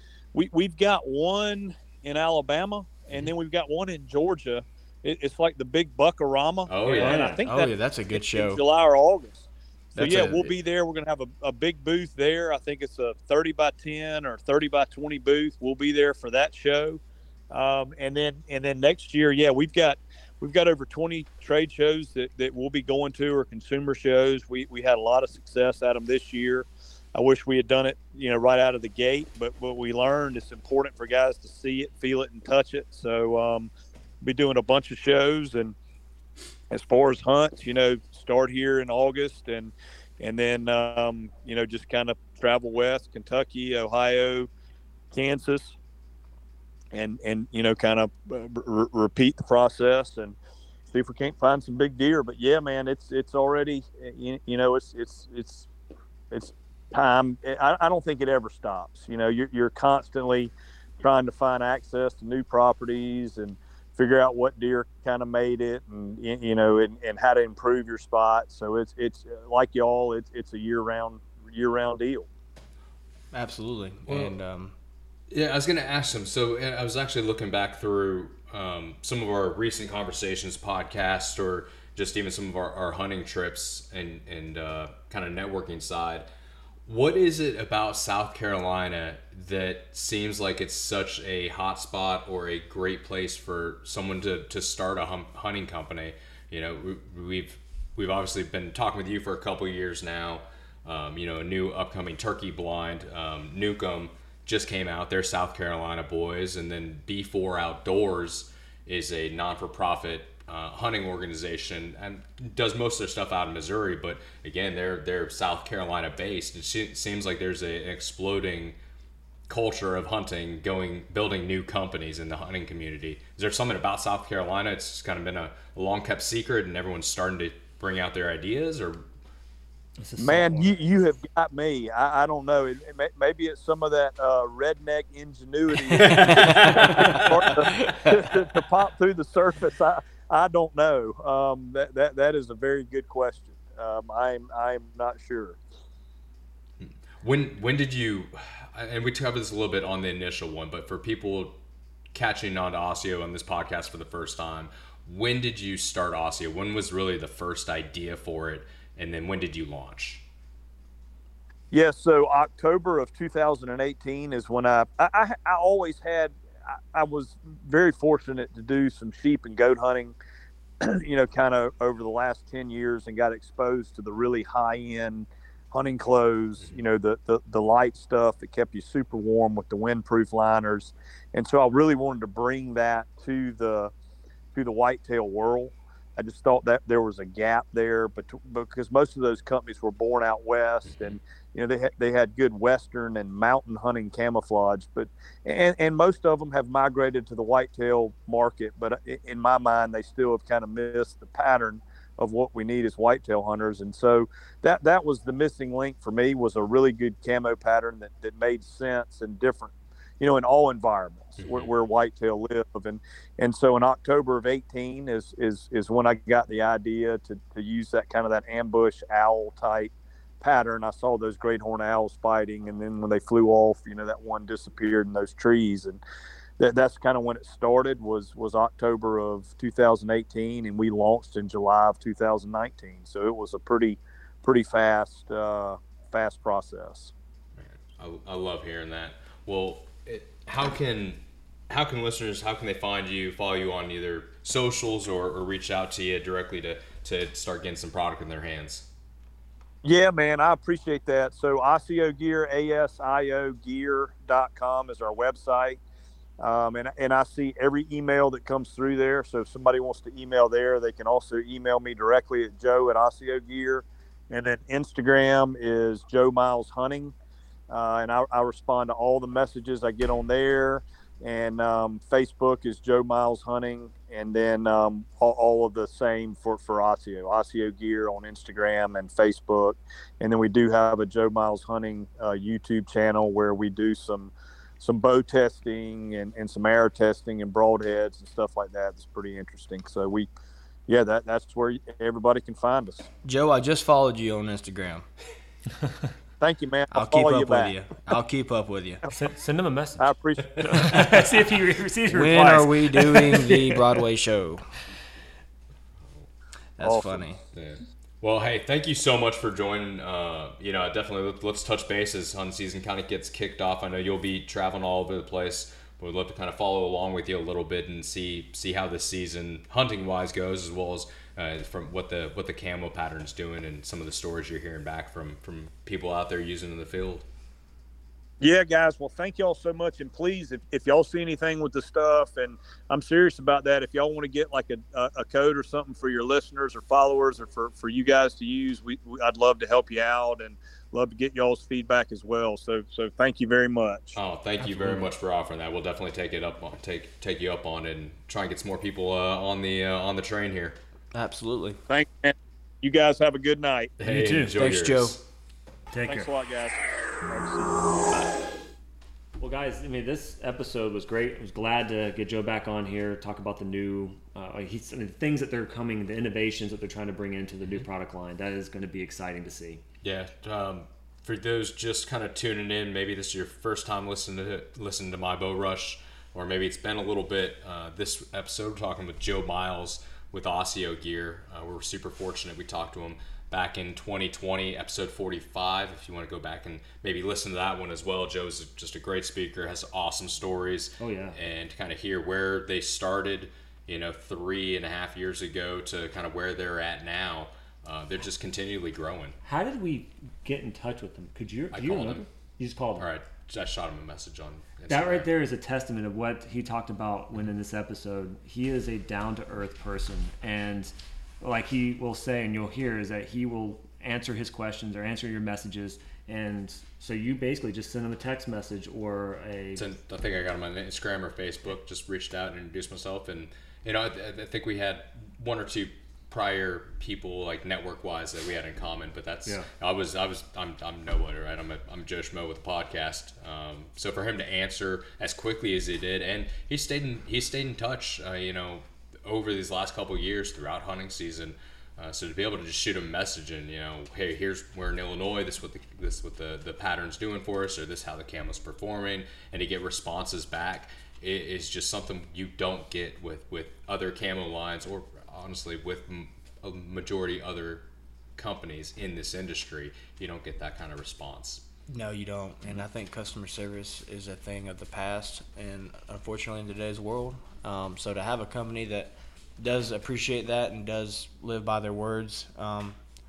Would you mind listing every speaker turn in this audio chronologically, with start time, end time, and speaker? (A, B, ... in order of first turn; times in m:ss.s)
0:00.3-0:33.7 A
0:06.7-0:07.3 B
0:07.0-0:07.4 C
0:07.4-0:08.6 D
0:10.0-0:10.5 D
0:34.2-0:35.7 A
0:36.7-0:44.5 A
0:45.1-0:45.8 A
0:46.9-0:50.4 A
0:50.9-0:55.7 A
0:56.3-1:12.3 A
1:13.3-1:14.7 D
1:14.1-1:14.4 B
1:15.3-1:26.3 B
1:26.8-1:58.8 B
1:59.5-2:09.0 B
2:10.0-2:10.7 C
2:10.2-2:25.6 A
2:15.8-2:17.9 B
2:26.8-2:31.6 B
2:32.1-2:40.2 B
2:41.7-2:50.1 A
2:50.8-3:03.9 A
3:04.5-3:46.0 A
3:10.9-3:11.2 B
3:31.4-3:31.7 B
3:46.6-3:57.1 A
3:57.6-4:08.9 B
4:09.8-4:15.8 A
4:16.4-4:27.1 A
4:27.7-4:50.3 A
4:50.9-4:53.1 A
4:53.2-4:55.1 D
4:56.4-4:57.7 A
4:56.9-4:59.0 D
4:59.1-5:03.8 C
5:00.0-5:01.1 A
5:02.1-5:04.7 D
5:06.8-5:07.4 D
5:06.8-5:07.4 A
5:07.5-5:27.2 B
5:28.4-5:44.2 A
5:44.2-5:50.8 B
5:44.6-5:45.1 C
5:51.1-5:51.8 D
5:51.9-5:53.9 A
5:54.0-5:55.2 B
5:54.0-5:54.5 C
5:54.5-5:55.2 D
5:55.9-5:56.3 C
5:56.1-5:57.8 A
5:59.4-6:09.8 C
6:10.0-6:39.4 B
6:31.0-6:31.4 C
6:39.4-6:43.1 C
6:41.7-6:42.2 B
6:43.0-6:45.3 B
6:44.9-6:59.8 C
6:59.8-7:37.8 B
7:38.4-7:41.6 B
7:41.9-7:53.0 D